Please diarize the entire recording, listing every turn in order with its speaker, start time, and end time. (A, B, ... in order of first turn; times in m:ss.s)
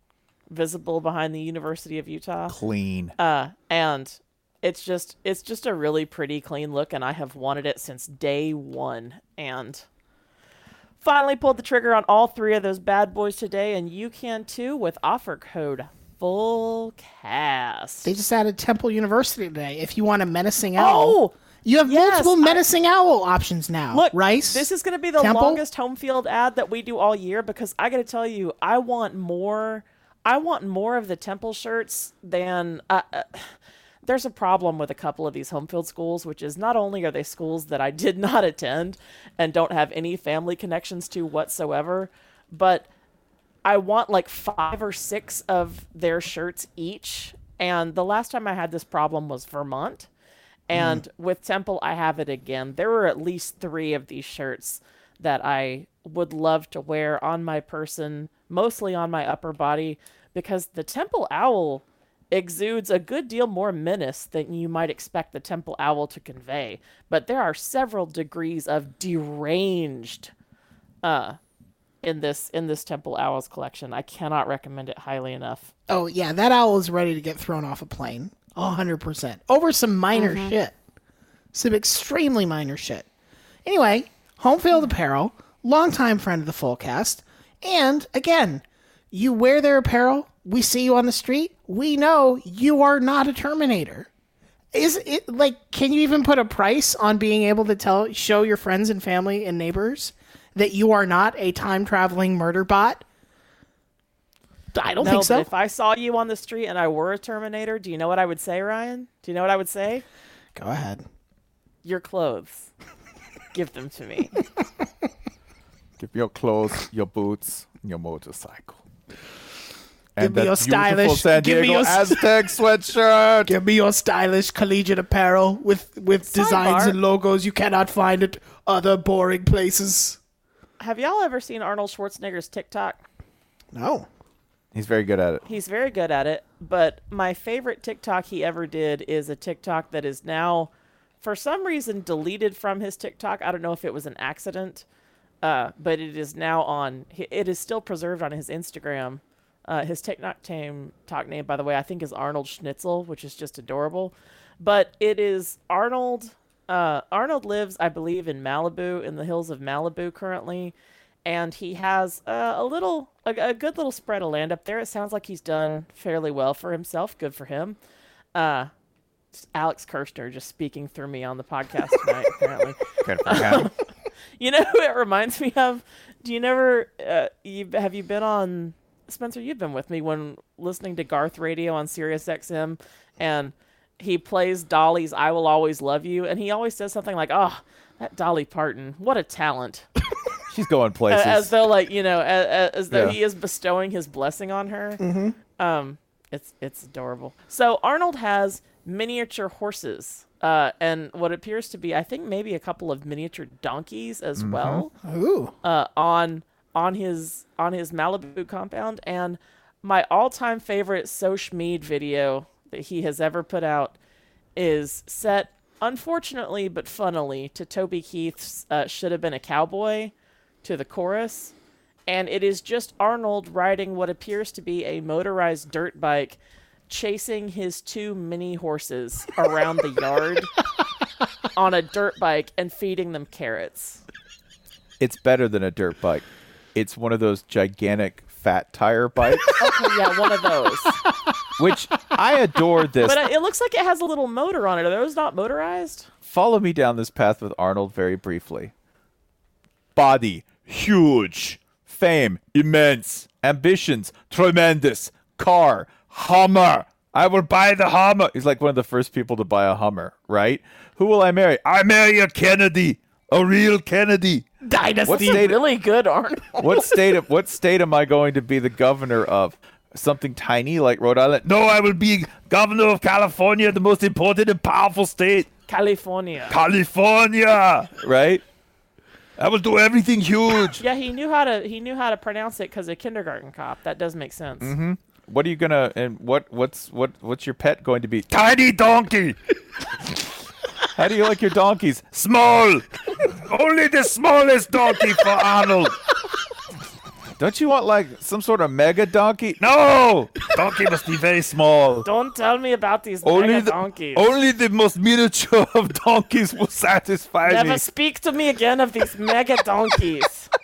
0:00.5-0:02.5 A
0:02.5-0:03.1 B
0:03.2-0:09.8 A
0:11.0-0:18.1 A
0:18.0-0:25.6 C
0:20.8-0:22.6 A
0:23.9-0:33.5 A
0:34.0-0:42.9 A
0:43.6-0:50.1 A
0:50.7-1:10.3 A
0:50.7-0:51.0 C
1:11.0-1:11.4 A
1:12.0-1:15.7 A
1:15.9-1:20.7 C
1:20.1-1:20.5 A
1:21.5-1:23.1 C
1:23.6-1:34.1 C
1:34.7-1:43.0 C
1:44.7-1:45.5 C
1:45.0-1:50.0 A
1:50.5-1:51.0 C
1:51.8-1:52.7 A
1:53.5-1:54.4 A
1:56.0-1:58.8 B
2:00.2-2:03.5 B
2:00.2-2:02.4 C
2:03.4-2:10.2 C
2:06.2-2:07.0 A
2:10.8-2:13.0 A
2:13.7-2:14.1 C
2:14.7-2:15.4 B
2:15.4-2:24.8 A
2:25.4-2:40.7 A
2:41.2-2:47.8 A
2:48.3-2:48.7 A
2:49.4-2:53.7 A
2:53.0-2:53.7 B
2:54.4-3:09.8 A
3:10.5-3:11.5 B
3:11.1-3:15.0 A
3:12.9-3:13.2 B
3:15.0-3:15.4 C
3:15.6-3:24.9 A
3:24.4-3:24.8 B
3:25.0-3:25.5 C
3:25.6-3:34.0 A
3:34.6-3:41.5 A
3:42.1-3:46.4 A
3:46.9-3:50.5 A
3:51.5-3:54.0 A
3:55.0-3:59.6 B
3:59.6-4:01.0 A
4:01.6-4:03.2 B
4:03.0-4:06.1 A
4:06.2-4:08.7 B
4:10.0-4:24.4 B
4:24.6-4:25.5 C
4:25.0-4:25.6 B
4:25.1-4:26.9 A
4:26.6-4:35.5 B
4:35.7-4:36.6 A
4:36.5-4:38.4 B
4:39.4-4:40.8 B
4:40.8-4:44.7 A
4:44.6-4:49.4 B
4:50.9-4:55.9 B
4:57.4-5:02.1 B
5:02.0-5:04.3 A
5:03.2-5:07.8 B
5:07.4-5:10.5 A